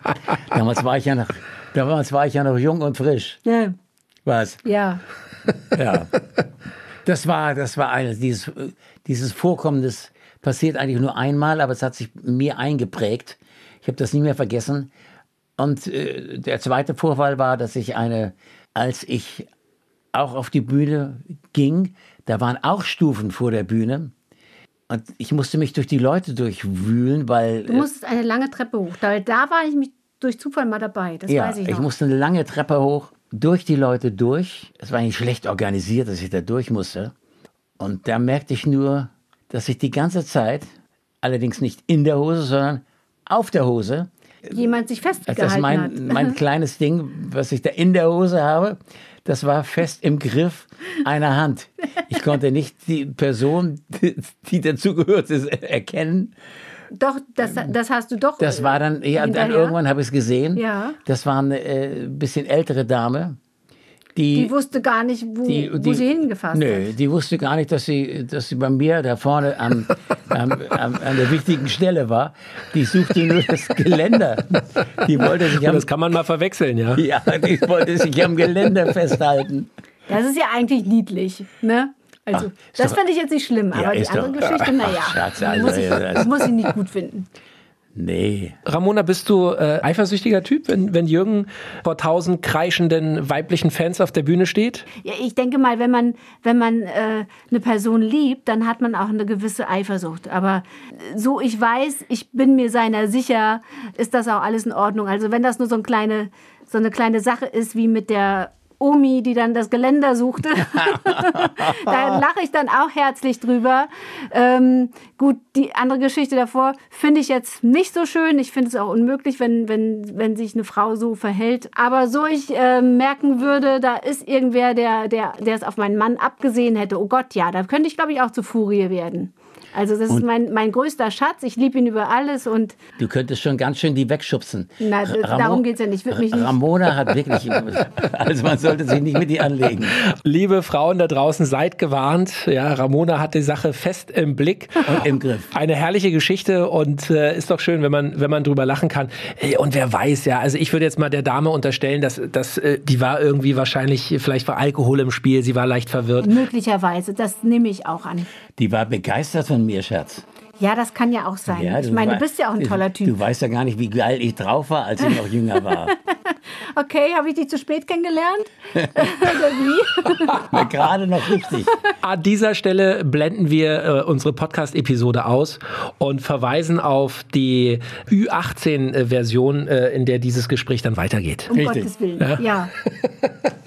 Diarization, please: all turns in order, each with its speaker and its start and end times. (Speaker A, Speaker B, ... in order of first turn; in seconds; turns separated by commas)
Speaker A: 0.3-3.4, Speaker B: 3.5-3.8, Speaker A: 4.3-4.6, Speaker B: 4.6-5.0, Speaker A: 5.7-6.1, Speaker A: 7.0-14.9, Speaker A: 15.6-19.5, Speaker A: 20.1-24.1, Speaker A: 24.9-27.9, Speaker B: 27.7-31.9, Speaker A: 31.3-37.1, Speaker A: 37.8-40.7, Speaker A: 41.2-44.1, Speaker B: 44.5-46.4, Speaker A: 45.3-56.3, Speaker B: 56.9-59.8, Speaker A: 58.4-63.4, Speaker B: 60.5-61.0, Speaker A: 64.2-64.5, Speaker B: 64.3-66.9, Speaker A: 65.5-75.9, Speaker C: 75.1-77.0, Speaker A: 77.0-79.7, Speaker B: 80.1-87.3, Speaker A: 82.3-83.0, Speaker A: 83.7-86.3, Speaker A: 88.0-88.6, Speaker C: 88.7-94.9, Speaker B: 95.0-132.8, Speaker A: 133.0-140.0, Speaker B: 134.8-136.6, Speaker C: 139.8-156.3, Speaker A: 144.8-145.5, Speaker B: 156.2-158.3, Speaker A: 158.6-160.2, Speaker B: 160.6-163.2, Speaker A: 161.5-165.9, Speaker B: 165.0-170.6, Speaker A: 168.8-169.3, Speaker A: 170.3-171.7, Speaker C: 172.0-181.5, Speaker B: 181.5-182.7, Speaker A: 181.5-181.9, Speaker C: 182.2-183.5